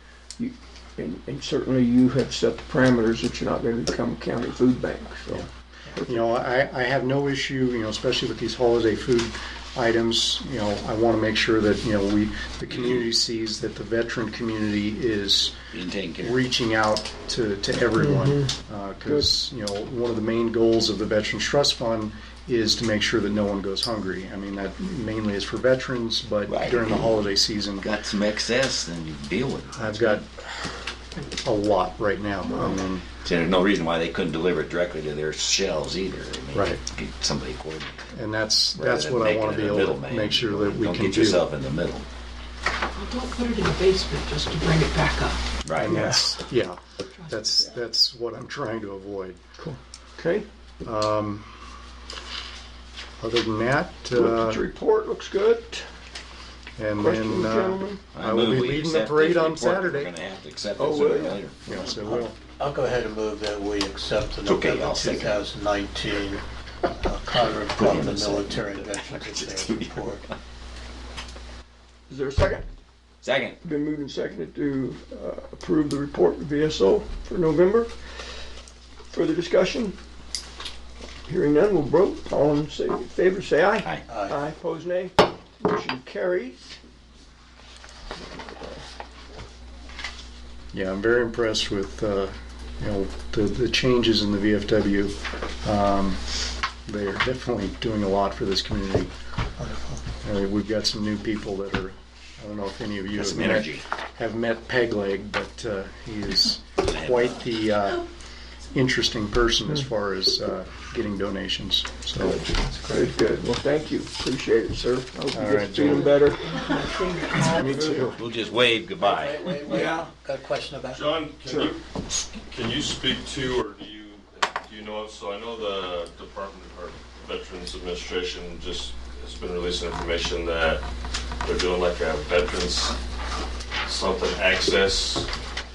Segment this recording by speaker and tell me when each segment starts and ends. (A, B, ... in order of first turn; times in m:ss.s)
0:00.4-0:06.1 A
0:06.0-0:15.6 B
0:12.7-0:13.0 C
0:15.7-0:16.4 C
0:16.2-0:27.9 B
0:18.0-0:18.5 A
0:26.5-0:27.2 C
0:27.8-0:30.2 C
0:29.8-0:30.2 B
0:31.2-0:33.1 B
0:33.2-0:38.1 C
0:36.5-0:36.8 B
0:38.1-0:41.4 B
0:38.8-0:42.1 C
0:43.0-0:45.4 D
0:45.6-0:46.0 C
0:45.8-0:49.4 B
0:47.1-0:47.4 D
0:49.6-0:50.5 A
0:50.8-0:51.5 B
0:53.2-0:54.6 B
0:54.1-0:55.9 A
0:56.8-1:00.1 B
0:57.0-0:58.0 A
0:58.1-1:01.6 C
1:00.8-1:01.4 A
1:01.7-1:02.4 B
1:01.8-1:10.3 E
1:04.4-1:05.4 C
1:07.3-1:10.0 C
1:12.1-1:12.6 A
1:13.2-1:13.6 C
1:13.6-1:17.9 A
1:19.1-1:20.0 A
1:21.3-1:26.7 A
1:24.1-1:24.4 E
1:28.2-1:28.8 A
1:30.7-1:36.2 B
1:36.8-1:39.1 B
1:39.6-1:40.0 E
1:40.2-1:48.1 B
1:43.2-1:43.8 C
1:46.8-1:47.5 C
1:48.7-1:52.4 B
1:52.2-1:56.8 A
1:52.6-1:53.1 E
1:55.3-1:56.2 B
1:56.5-1:58.1 D
1:57.3-1:58.2 B
1:57.7-1:58.1 A
1:58.1-1:59.4 C
1:59.0-2:01.3 E
1:59.6-2:00.1 A
2:00.9-2:10.8 F
2:01.4-2:01.7 A
2:11.4-2:13.0 F
2:13.9-2:15.3 F